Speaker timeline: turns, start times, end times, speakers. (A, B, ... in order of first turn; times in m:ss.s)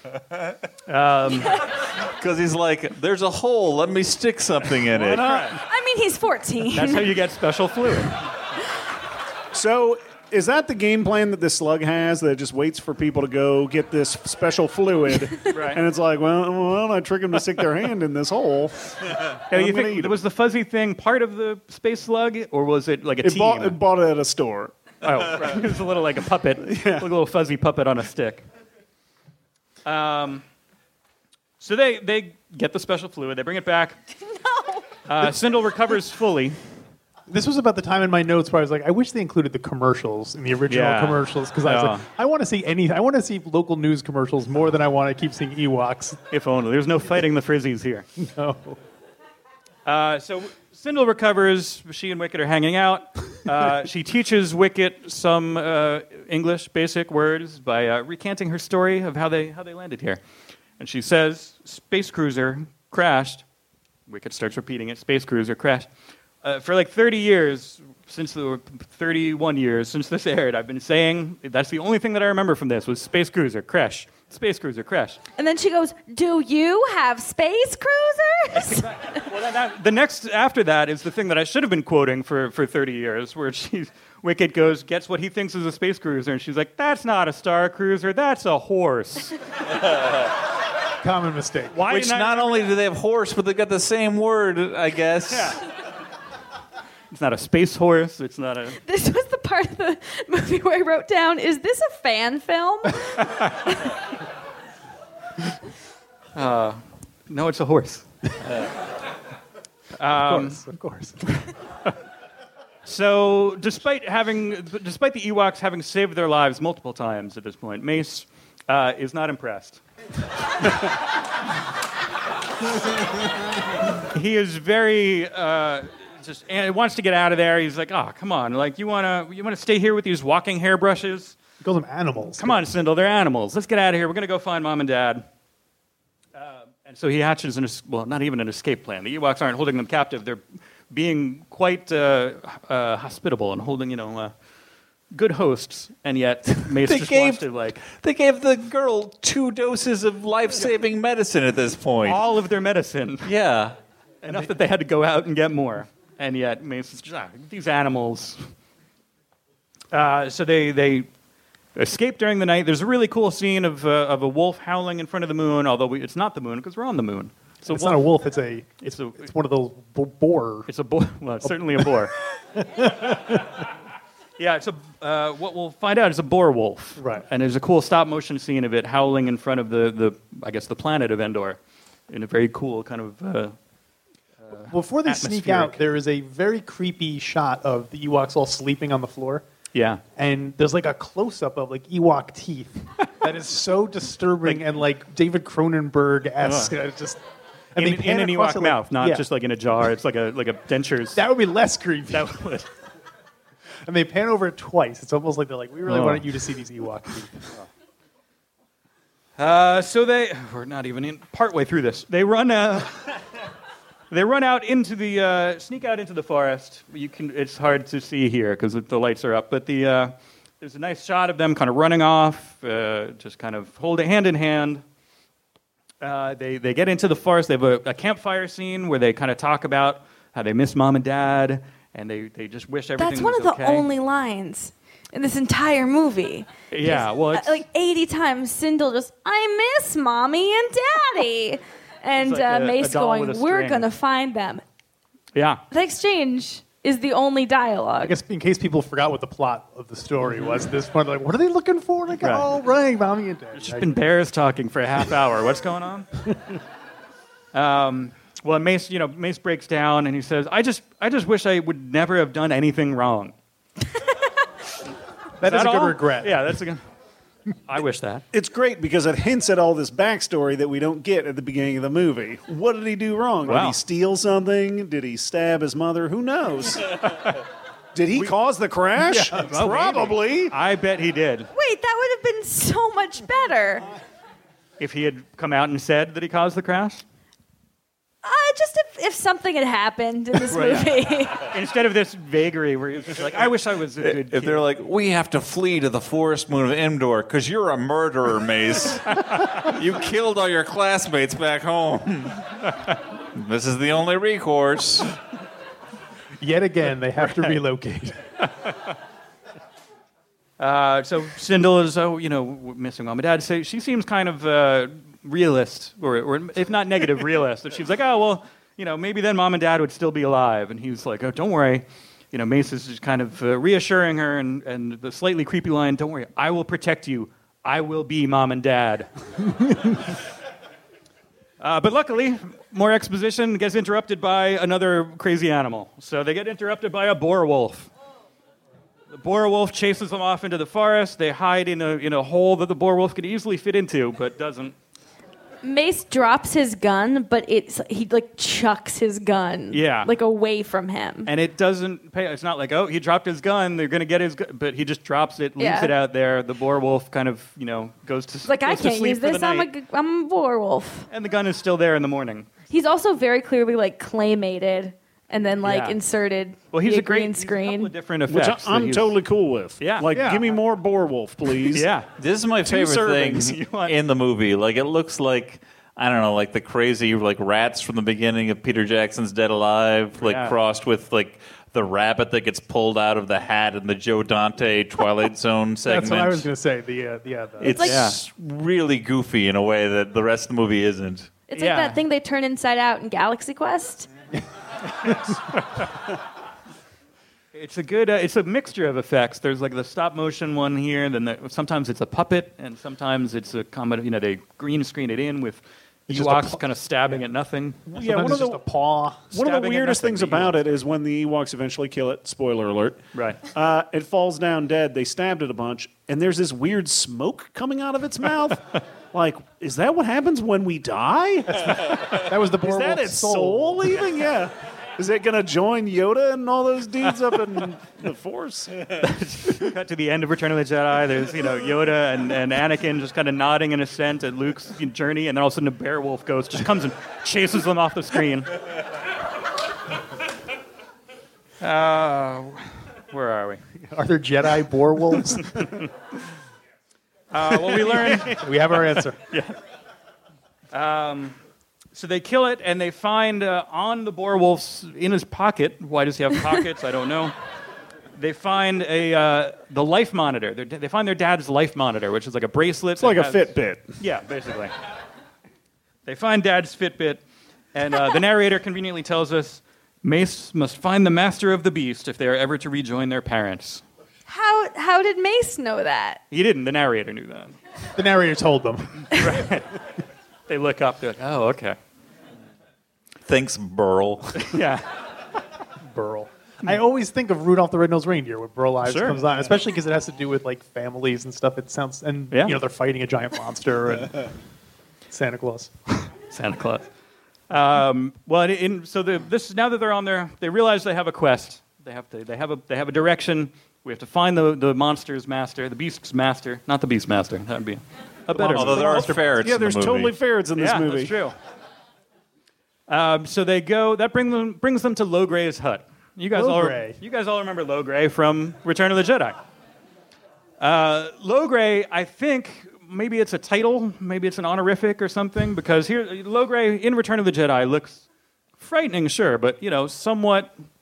0:00.9-0:01.6 A
0:02.2-0:05.3 B
0:05.0-0:05.6 C
0:05.2-0:05.6 A
0:05.7-0:07.2 D
0:06.7-0:08.2 A
0:09.5-0:20.2 C
0:15.5-0:15.8 A
0:19.5-0:23.8 A
0:23.2-0:24.7 C
0:25.0-0:28.4 A
0:26.6-0:27.0 C
0:29.8-0:30.4 A
0:31.6-0:34.0 A
0:35.1-0:36.6 A
0:37.3-0:46.2 E
0:40.7-0:42.0 A
0:46.3-0:48.1 A
0:48.2-0:48.8 E
0:49.8-1:00.2 A
1:00.8-1:03.4 A
1:04.1-1:05.9 A
1:06.4-1:15.2 A
1:15.4-1:19.2 D
1:18.7-1:29.3 A
1:31.0-1:32.3 E
1:31.7-1:32.6 A
1:31.9-1:35.6 B
1:35.3-1:35.6 A
1:37.1-1:38.8 A
1:38.8-1:43.8 D
1:46.3-1:48.0 A
1:50.0-1:50.6 A
1:50.1-1:51.2 E
1:52.8-1:59.8 A
2:04.1-2:11.4 A
2:11.6-2:12.6 E
2:12.3-2:15.2 A
2:16.3-2:24.3 A
2:25.1-2:27.8 A
2:26.7-2:32.2 B
2:32.0-2:33.3 A
2:33.2-2:33.8 B
2:34.2-2:38.5 A
2:39.9-2:41.1 A
2:41.8-2:48.1 A
2:47.7-2:50.7 E
2:48.8-2:49.3 A
2:50.7-2:52.1 A
2:51.4-2:51.9 E
2:52.6-2:53.6 E
2:54.4-3:01.6 A
2:57.0-2:57.2 E
3:02.1-3:03.6 A
3:04.5-3:05.8 A
3:04.7-3:09.4 E
3:09.7-3:10.0 A
3:10.2-3:17.2 E
3:16.4-3:16.7 A
3:17.7-3:19.2 E
3:17.8-3:21.2 A
3:21.1-3:22.4 E
3:22.1-3:22.7 A
3:23.8-3:27.4 E
3:25.8-3:26.3 A
3:29.4-3:33.2 A
3:34.1-3:44.8 A
3:46.0-3:53.9 A
3:53.0-4:04.6 D
3:56.7-3:57.6 A
4:02.2-4:03.9 A
4:05.3-4:05.6 A
4:05.7-4:08.2 D
4:08.0-4:14.0 E
4:10.2-4:10.6 A
4:12.2-4:12.5 A
4:13.5-4:16.1 A
4:17.5-4:23.3 A
4:25.4-4:26.6 E
4:25.4-4:26.8 A
4:27.6-4:28.2 A
4:28.3-4:36.9 C
4:33.4-4:33.8 A
4:37.9-4:40.5 C
4:39.0-4:41.5 A
4:41.5-4:43.8 D
4:44.8-4:47.0 A
4:48.2-4:51.5 D
4:50.5-4:54.6 A
4:54.0-5:02.4 B
5:03.3-5:05.1 B
5:06.4-5:08.2 E
5:07.3-5:07.6 A
5:10.6-5:29.1 A
5:31.6-5:37.9 A
5:39.1-5:44.7 A
5:45.6-5:51.3 D
5:49.7-5:50.1 A
5:51.2-5:59.7 A
5:55.6-5:55.9 D
5:58.4-6:01.1 D
6:01.1-6:02.5 A
6:02.7-6:07.9 D
6:05.6-6:06.0 A
6:06.7-6:09.2 A
6:08.3-6:11.9 C
6:09.8-6:10.1 A
6:10.1-6:10.6 E
6:11.7-6:12.1 A
6:12.2-6:26.5 B
6:12.6-6:13.9 A
6:20.2-6:20.6 A
6:25.8-6:27.8 E
6:27.6-6:31.3 B
6:27.8-6:28.2 A
6:31.5-6:34.1 D
6:31.5-6:32.0 A
6:35.0-6:35.8 A
6:37.5-6:47.9 A
6:46.1-6:47.2 E
6:47.9-6:48.6 C
6:47.9-6:50.4 E
6:49.3-6:53.0 C
6:49.7-6:50.6 A
6:53.1-6:53.4 A
6:53.5-7:02.0 C
7:01.6-7:04.0 E
7:02.6-7:08.8 C
7:09.0-7:18.5 A
7:21.6-7:23.6 A
7:23.9-7:25.8 E
7:27.3-7:29.6 A
7:27.6-7:29.2 E
7:30.7-7:31.4 A
7:31.9-7:37.3 A
7:38.2-7:44.7 A
7:43.0-7:43.9 C
7:46.0-7:47.2 A
7:47.7-7:53.8 A
7:54.3-7:56.2 D
7:56.3-7:57.6 A
7:57.9-7:59.5 E
7:59.1-7:59.7 A
8:00.5-8:01.8 A
8:03.2-8:04.5 B
8:04.4-8:04.8 A
8:05.8-8:14.3 E
8:08.8-8:09.2 A
8:12.3-8:12.6 A
8:15.1-8:15.7 E
8:16.0-8:16.9 A
8:17.5-8:29.0 A
8:28.3-8:29.3 E
8:28.5-8:30.1 B
8:29.3-8:31.2 C
8:30.6-8:31.4 A
8:32.9-8:39.4 A
8:36.3-8:37.0 E
8:40.6-8:48.0 A
8:48.6-8:50.5 A